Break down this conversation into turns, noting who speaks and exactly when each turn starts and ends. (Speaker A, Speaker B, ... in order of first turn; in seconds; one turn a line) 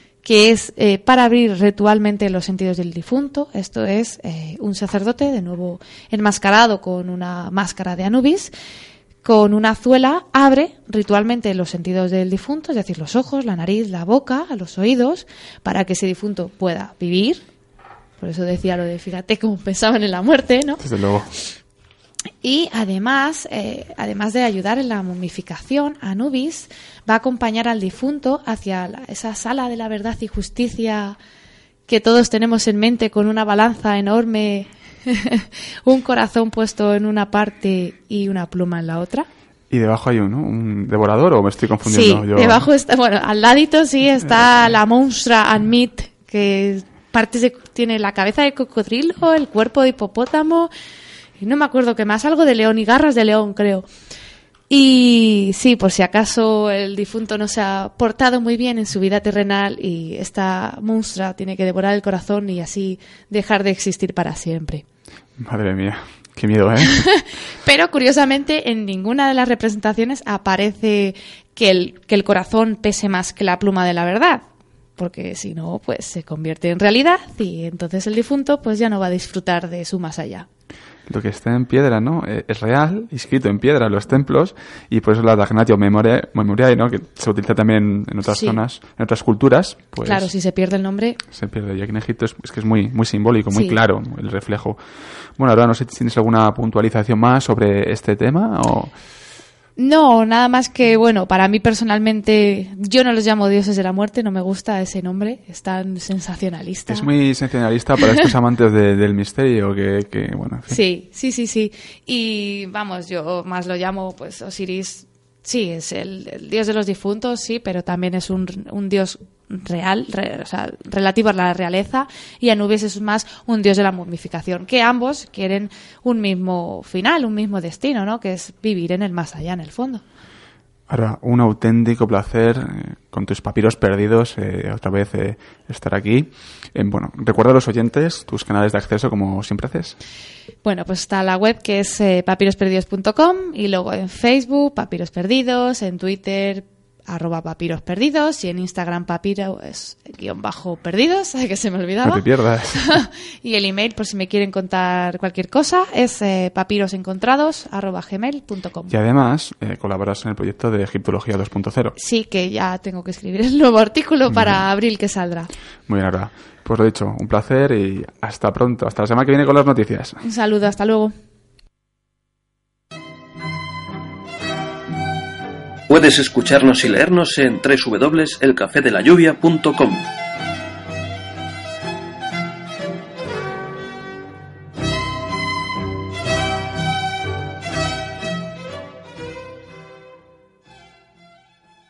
Speaker A: 0.2-8.5
Speaker A: 9.2-17.4
Speaker A: 18.2-20.8
Speaker B: 20.8-21.3
Speaker A: 22.4-31.2
Speaker A: 31.9-39.3
Speaker B: 39.7-42.6
Speaker A: 41.8-50.7
Speaker A: 51.4-53.9
Speaker A: 54.7-64.8
Speaker B: 65.4-67.0
Speaker A: 66.9-74.4
Speaker A: 75.0-80.5
Speaker B: 81.1-90.3
Speaker A: 88.2-88.6
Speaker A: 90.0-91.2
Speaker B: 91.3-94.8
Speaker A: 93.5-93.8
Speaker B: 95.4-98.9
Speaker A: 99.8-107.1
Speaker B: 106.9-110.8
Speaker A: 110.7-130.0
Speaker B: 130.9-140.0
Speaker A: 140.6-158.9
Speaker B: 152.0-153.0
Speaker B: 158.9-161.9
Speaker A: 161.9-165.5
Speaker B: 164.3-164.6
Speaker B: 165.9-170.2
Speaker A: 170.2-171.1
Speaker C: 175.9-180.1